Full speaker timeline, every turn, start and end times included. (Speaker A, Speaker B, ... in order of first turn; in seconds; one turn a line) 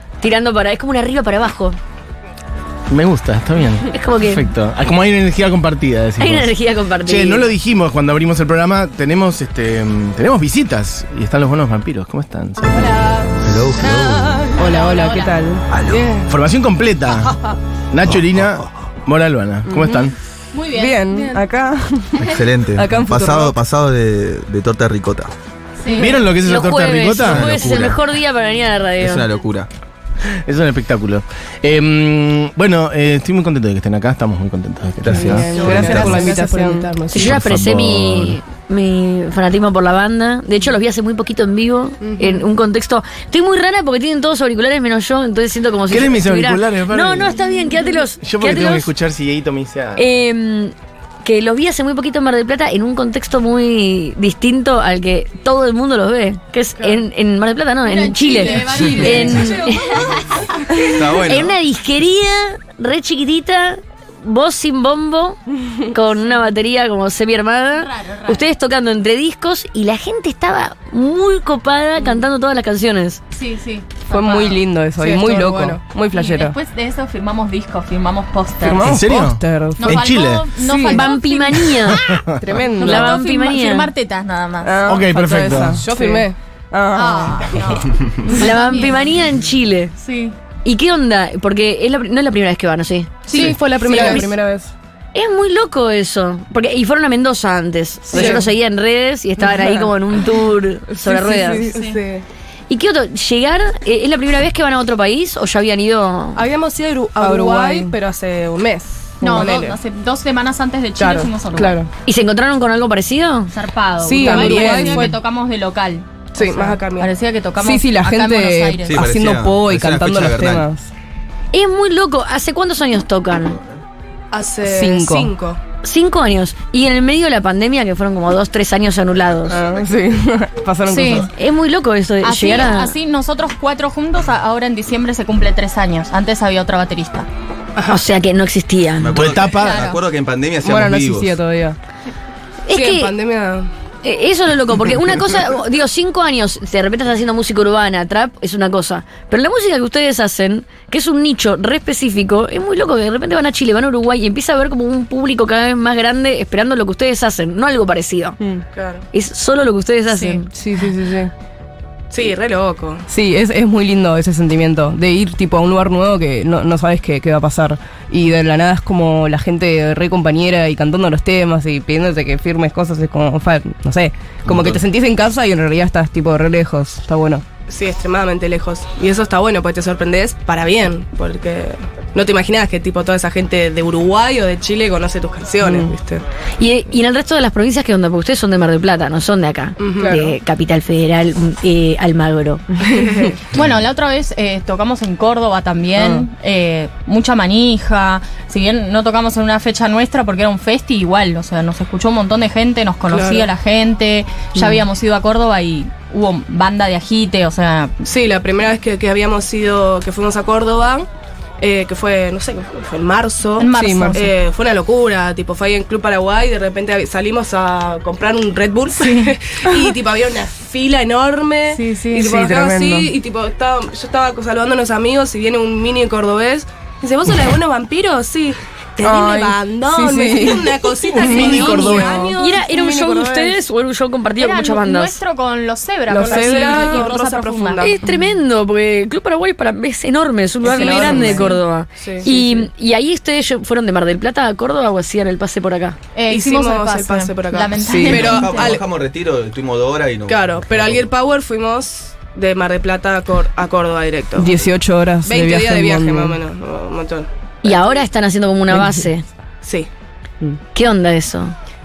Speaker A: 0.2-1.8
Speaker B: 2.9-13.0
Speaker A: 3.9-4.5
Speaker A: 6.2-7.5
Speaker C: 12.8-14.5
Speaker D: 13.4-14.6
Speaker E: 14.3-15.4
Speaker F: 14.6-15.7
Speaker D: 15.7-16.1
Speaker C: 15.8-16.3
Speaker B: 16.3-20.1
Speaker D: 18.2-18.6
Speaker F: 19.7-20.1
Speaker E: 20.5-21.5
Speaker F: 20.7-23.6
Speaker D: 22.2-25.3
Speaker E: 25.8-26.2
Speaker B: 25.9-28.0
Speaker A: 26.4-29.3
Speaker D: 27.2-28.0
Speaker D: 29.0-29.7
Speaker B: 30.4-35.6
Speaker D: 35.0-36.4
Speaker C: 35.1-37.4
Speaker F: 35.5-37.1
Speaker A: 37.1-48.9
Speaker B: 37.1-38.4
Speaker C: 42.0-42.4
Speaker B: 45.9-47.6
Speaker B: 48.2-50.0
Speaker A: 50.0-60.0
Speaker E: 57.8-61.0
Speaker C: 58.9-60.1
Speaker D: 60.8-61.6
Speaker A: 61.1-73.2
Speaker E: 66.2-66.4
Speaker E: 67.8-68.5
Speaker E: 73.3-78.9
Speaker F: 74.1-76.6
Speaker F: 78.6-81.1
Speaker B: 78.8-80.5
Speaker E: 79.8-82.0
Speaker A: 80.8-82.1
Speaker B: 81.9-82.5
Speaker F: 82.4-83.2
Speaker E: 82.7-85.0
Speaker A: 82.8-83.9
Speaker F: 84.6-87.8
Speaker B: 84.9-85.8
Speaker C: 85.8-86.3
Speaker E: 87.0-89.1
Speaker A: 88.3-90.0
Speaker E: 90.0-90.3
Speaker A: 90.6-93.3
Speaker E: 93.3-94.2
Speaker C: 93.3-94.3
Speaker F: 93.3-94.7
Speaker A: 93.9-94.2
Speaker A: 95.1-101.7
Speaker F: 98.1-98.5
Speaker C: 98.1-98.5
Speaker F: 99.4-100.3
Speaker F: 100.9-101.9
Speaker E: 101.7-102.0
Speaker C: 101.7-102.2
Speaker A: 102.7-106.4
Speaker C: 106.4-109.8
Speaker F: 107.2-107.9
Speaker E: 109.2-111.8
Speaker C: 111.0-111.3
Speaker F: 111.0-111.9
Speaker A: 112.0-113.5
Speaker E: 113.5-116.3
Speaker C: 114.0-115.1
Speaker F: 114.2-115.2
Speaker C: 116.4-117.1
Speaker F: 116.4-116.7
Speaker E: 117.0-119.0
Speaker F: 117.6-120.9
Speaker D: 118.8-120.7
Speaker A: 121.5-123.6
Speaker C: 124.3-125.6
Speaker F: 124.6-125.3
Speaker A: 125.8-129.6
Speaker D: 129.5-130.0
Speaker F: 129.5-131.3
Speaker E: 130.9-131.3
Speaker A: 131.3-132.9
Speaker E: 132.2-137.3
Speaker A: 137.9-139.2
Speaker D: 139.0-141.4
Speaker B: 139.1-139.8
Speaker E: 139.5-140.0
Speaker F: 140.6-141.8
Speaker A: 142.7-143.2
Speaker C: 142.7-143.7
Speaker A: 144.0-158.4
Speaker F: 158.4-158.7
Speaker C: 158.7-159.1
Speaker A: 159.1-160.5
Speaker E: 160.1-160.4
Speaker F: 160.5-161.3
Speaker C: 162.1-163.1
Speaker F: 163.1-177.4
Speaker D: 174.5-174.8
Speaker C: 177.7-186.2
Speaker F: 185.6-185.9
Speaker A: 186.6-192.8
Speaker C: 189.8-190.3
Speaker C: 192.9-193.4
Speaker E: 193.4-207.9
Speaker F: 196.0-196.2
Speaker C: 203.1-203.5
Speaker C: 208.0-211.1
Speaker C: 211.6-233.6
Speaker E: 213.6-214.3
Speaker F: 213.8-214.2
Speaker E: 219.0-219.4
Speaker E: 221.7-222.2
Speaker F: 222.1-223.1
Speaker F: 229.0-232.1
Speaker B: 231.1-232.3
Speaker A: 232.4-235.2
Speaker E: 234.4-237.9
Speaker F: 236.1-237.1
Speaker C: 236.1-238.0
Speaker A: 237.8-246.0
Speaker E: 240.7-241.6
Speaker C: 240.7-241.5
Speaker F: 240.7-241.6
Speaker C: 242.0-242.3
Speaker F: 242.2-242.6
Speaker E: 246.2-248.8
Speaker C: 246.3-248.8
Speaker F: 247.8-248.4
Speaker D: 248.1-251.1
Speaker C: 250.3-254.6
Speaker F: 254.4-256.4
Speaker C: 255.2-257.3
Speaker A: 257.6-259.2
Speaker F: 258.7-259.1
Speaker C: 259.6-259.9
Speaker A: 260.7-261.5